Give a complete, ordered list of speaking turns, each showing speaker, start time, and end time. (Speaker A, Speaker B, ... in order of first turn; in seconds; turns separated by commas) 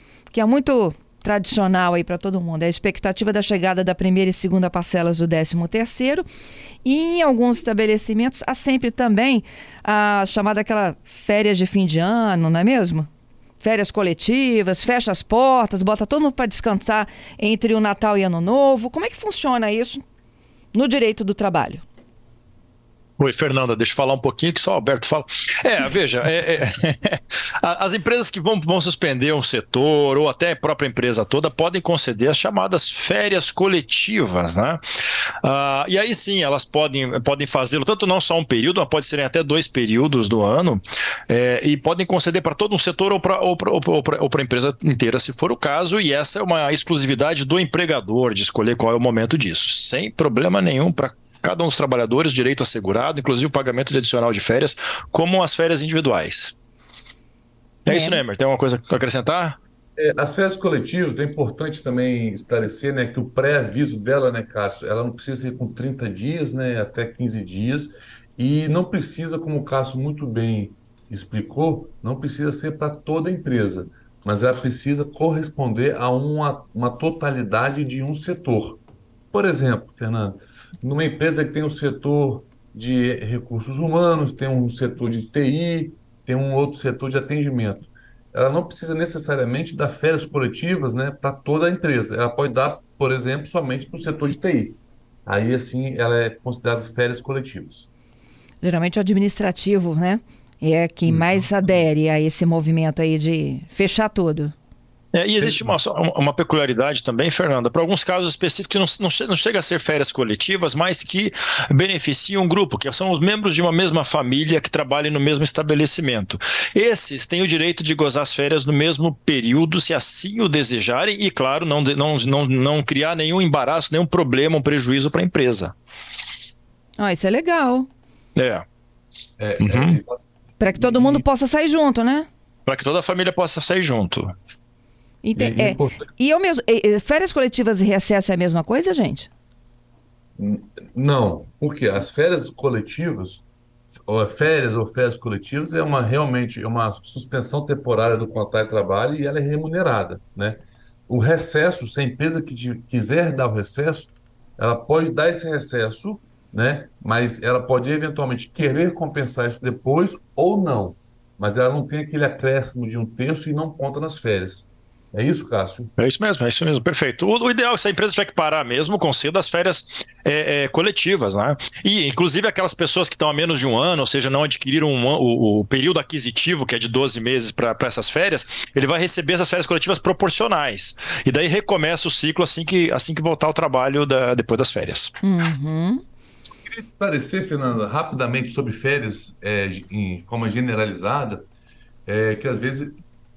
Speaker A: 0.3-6.3, Speaker A: 6.8-13.1, Speaker A: 13.6-20.0, Speaker A: 20.7-21.8, Speaker B: 23.2-34.8, Speaker B: 35.4-56.5, Speaker B: 57.8-59.6, Speaker A: 57.9-58.2, Speaker C: 60.0-78.8, Speaker C: 79.3-97.9, Speaker A: 98.6-104.5, Speaker C: 101.0-101.8, Speaker B: 105.1-125.7, Speaker C: 105.4-105.8, Speaker A: 127.0-127.9, Speaker B: 128.3-128.6, Speaker C: 129.4-131.2, Speaker B: 129.6-130.0, Speaker A: 130.6-132.3, Speaker B: 132.7-134.3, Speaker A: 135.2-139.3, Speaker C: 135.3-136.1, Speaker C: 140.4-143.4, Speaker C: 144.1-165.9, Speaker B: 166.0-185.1, Speaker A: 185.2-186.0, Speaker C: 186.4-191.5, Speaker C: 192.1-192.9